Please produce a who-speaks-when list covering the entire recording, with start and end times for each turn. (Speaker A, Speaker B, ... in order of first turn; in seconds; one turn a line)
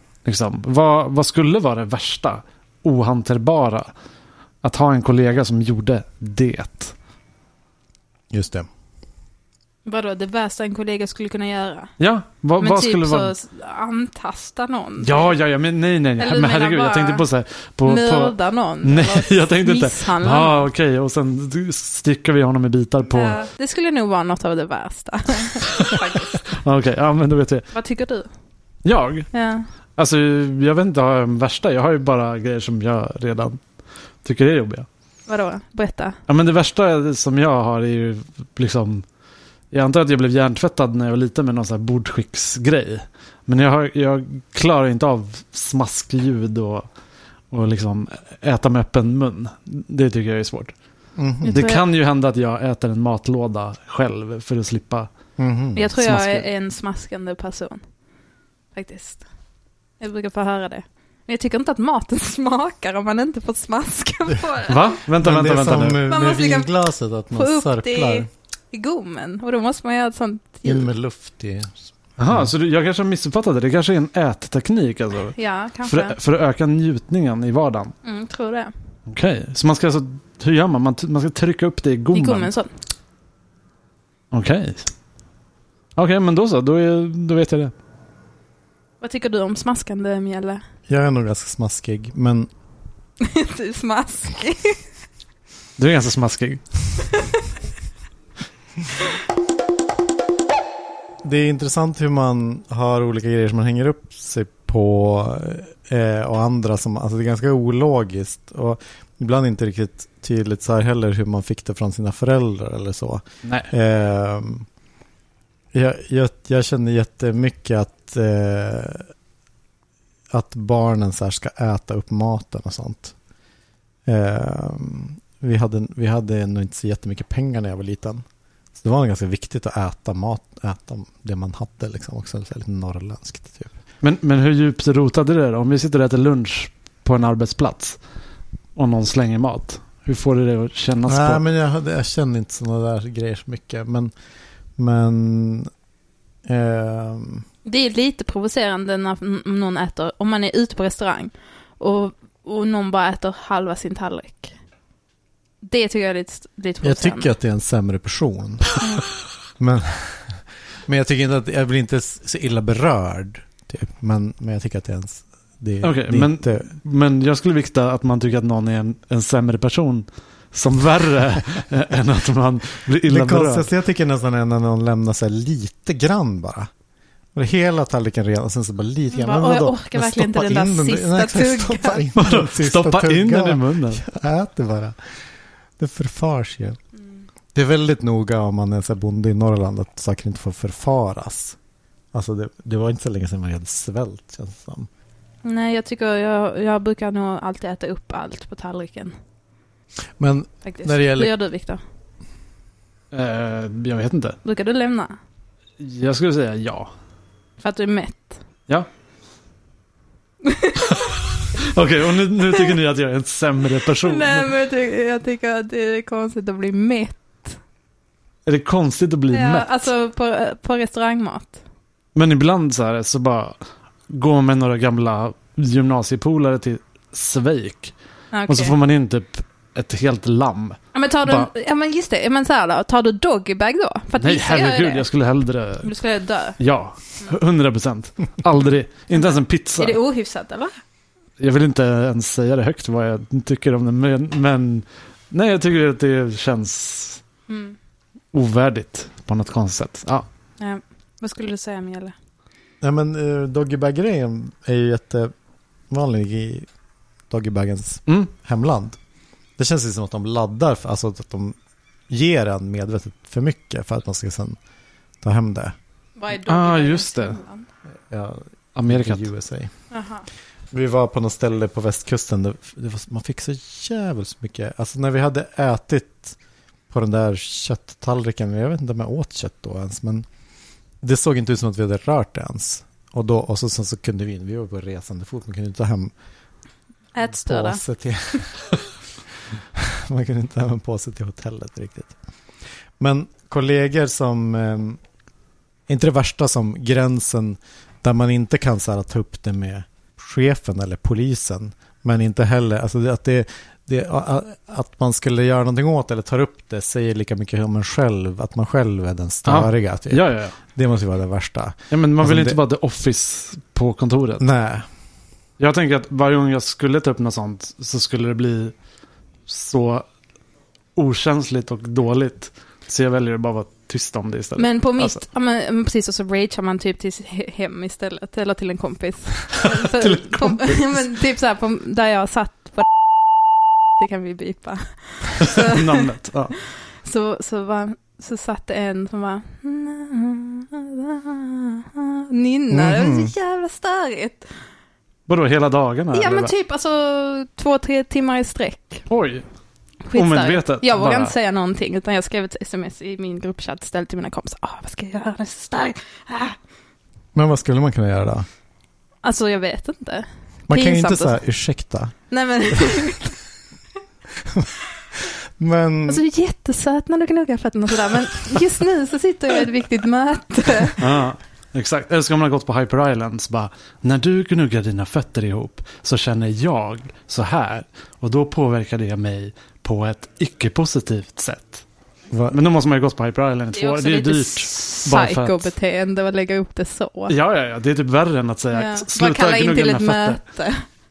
Speaker A: 0.2-3.9
Speaker A: 4.6-6.9
Speaker B: 8.3-8.7
Speaker C: 9.9-11.9
Speaker A: 12.0-13.3
Speaker C: 12.6-15.4
Speaker A: 15.0-23.4
Speaker C: 16.2-17.3
Speaker C: 17.8-20.7
Speaker C: 23.1-26.4
Speaker A: 25.9-27.7
Speaker C: 27.7-28.3
Speaker A: 28.9-29.3
Speaker C: 29.3-29.6
Speaker A: 30.0-33.6
Speaker A: 34.2-34.9
Speaker C: 35.3-36.2
Speaker A: 36.3-39.0
Speaker A: 39.7-46.9
Speaker A: 47.5-50.8
Speaker B: 51.2-51.6
Speaker C: 51.4-51.9
Speaker A: 51.5-55.1
Speaker B: 55.4-55.9
Speaker C: 55.8-57.8
Speaker A: 56.0-56.5
Speaker C: 58.8-59.2
Speaker C: 60.0-65.0
Speaker A: 64.7-66.0
Speaker B: 65.2-68.3
Speaker C: 66.0-66.7
Speaker C: 67.3-70.9
Speaker B: 70.7-71.8
Speaker A: 72.2-77.9
Speaker C: 75.3-76.2
Speaker C: 78.0-78.7
Speaker A: 79.1-82.5
Speaker C: 82.1-82.7
Speaker A: 84.3-84.9
Speaker A: 86.0-87.7
Speaker C: 89.0-90.6
Speaker B: 90.9-92.5
Speaker C: 93.2-94.8
Speaker A: 95.8-96.6
Speaker B: 101.2-114.7
Speaker A: 113.4-113.7
Speaker B: 115.7-119.1
Speaker B: 120.3-123.2
Speaker B: 124.1-128.2
Speaker B: 128.8-133.8
Speaker A: 134.0-138.0
Speaker A: 138.8-141.4
Speaker B: 141.1-144.1
Speaker B: 144.8-145.7
Speaker B: 146.5-147.4
Speaker C: 147.7-154.5
Speaker C: 155.6-157.3
Speaker B: 156.8-158.8
Speaker B: 159.6-166.8
Speaker A: 165.8-173.7
Speaker B: 173.1-176.7
Speaker B: 177.3-185.1
Speaker C: 179.1-182.0
Speaker A: 182.2-184.0
Speaker B: 185.8-186.8
Speaker B: 187.5-191.6
Speaker B: 192.1-194.9
Speaker C: 195.4-199.1
Speaker B: 200.2-201.3
Speaker C: 200.6-201.8
Speaker A: 203.1-204.4
Speaker C: 204.4-205.1
Speaker A: 205.8-206.9
Speaker C: 207.6-208.4
Speaker C: 210.4-211.0
Speaker A: 211.0-214.5
Speaker C: 213.9-217.6
Speaker A: 218.5-219.9
Speaker C: 219.3-221.6
Speaker A: 222.2-223.6
Speaker A: 224.1-227.9
Speaker C: 228.3-228.8
Speaker A: 228.5-231.5
Speaker C: 230.9-235.1
Speaker A: 234.2-235.9
Speaker C: 235.8-236.6
Speaker A: 236.6-240.0
Speaker C: 239.2-240.7
Speaker A: 241.4-247.2
Speaker C: 247.5-247.8
Speaker A: 248.3-250.3
Speaker C: 250.6-252.2
Speaker B: 252.8-255.3
Speaker B: 255.9-256.7
Speaker B: 257.3-259.0
Speaker B: 259.6-261.6
Speaker B: 262.1-264.6
Speaker B: 265.2-265.8
Speaker C: 266.2-267.7
Speaker A: 266.3-267.4
Speaker B: 268.1-269.7
Speaker A: 268.8-269.3
Speaker C: 269.9-270.3
Speaker B: 270.7-276.4
Speaker B: 276.9-280.3
Speaker B: 281.0-286.1
Speaker C: 287.1-287.8
Speaker B: 287.2-288.8
Speaker B: 289.8-292.1
Speaker B: 293.0-295.0
Speaker B: 295.9-312.6
Speaker A: 309.4-310.6
Speaker A: 311.9-314.5
Speaker B: 314.4-314.9
Speaker A: 315.6-318.7
Speaker A: 319.5-320.1
Speaker A: 321.0-325.2
Speaker C: 324.6-332.9
Speaker A: 329.9-331.0
Speaker C: 334.0-335.9
Speaker A: 335.4-336.5
Speaker C: 336.5-344.4
Speaker B: 342.7-343.3
Speaker A: 345.3-346.5
Speaker C: 346.1-349.1
Speaker A: 349.1-349.4
Speaker C: 350.1-356.6
Speaker A: 350.1-351.3
Speaker B: 357.4-358.5
Speaker C: 359.2-361.4
Speaker B: 360.7-362.1
Speaker C: 362.3-363.4
Speaker B: 365.6-366.2
Speaker C: 366.1-371.0
Speaker A: 371.0-381.8
Speaker B: 382.3-382.6
Speaker A: 382.5-385.7
Speaker C: 383.7-387.4
Speaker A: 387.3-390.4
Speaker C: 388.7-390.8